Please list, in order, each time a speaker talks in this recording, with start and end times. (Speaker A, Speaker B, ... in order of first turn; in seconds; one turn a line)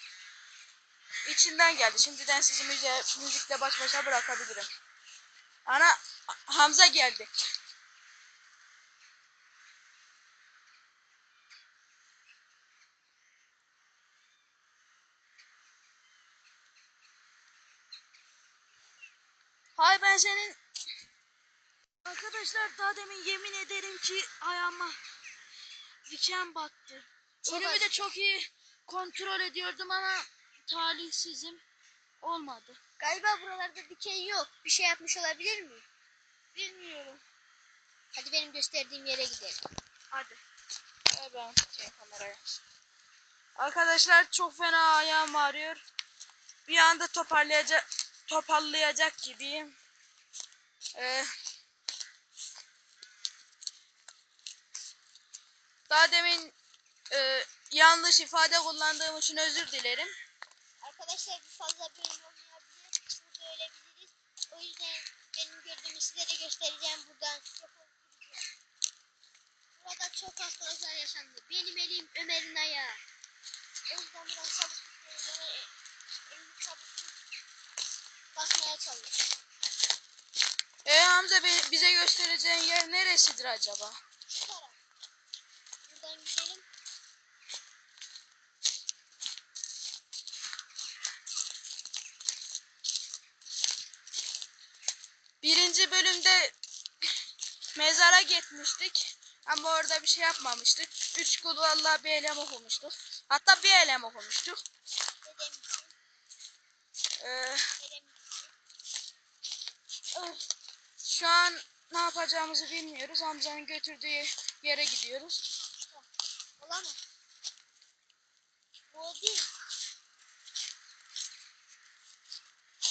Speaker A: 1.2-4.7
Speaker A: 5.7-6.0
Speaker A: 6.5-7.3
Speaker A: 19.8-20.6
Speaker A: 22.0-25.0
Speaker A: 26.1-31.6
Speaker B: 27.5-28.1
Speaker A: 32.2-32.8
Speaker B: 33.0-35.8
Speaker A: 36.5-37.2
Speaker B: 38.1-39.6
Speaker A: 40.1-40.4
Speaker A: 41.1-42.6
Speaker A: 43.6-45.8
Speaker A: 46.6-49.8
Speaker A: 50.9-51.3
Speaker A: 55.9-56.5
Speaker A: 57.1-60.1
Speaker B: 60.8-68.4
Speaker B: 69.8-73.0
Speaker B: 73.9-75.7
Speaker B: 76.3-77.1
Speaker B: 78.3-79.2
Speaker A: 80.8-84.0
Speaker B: 84.3-84.8
Speaker B: 85.9-86.7
Speaker A: 95.4-96.5
Speaker A: 97.7-104.6
Speaker B: 105.2-105.9
Speaker A: 107.2-107.7
Speaker B: 107.8-108.5
Speaker A: 110.1-110.4
Speaker A: 111.0-115.4
Speaker B: 116.6-117.0
Speaker B: 118.9-119.5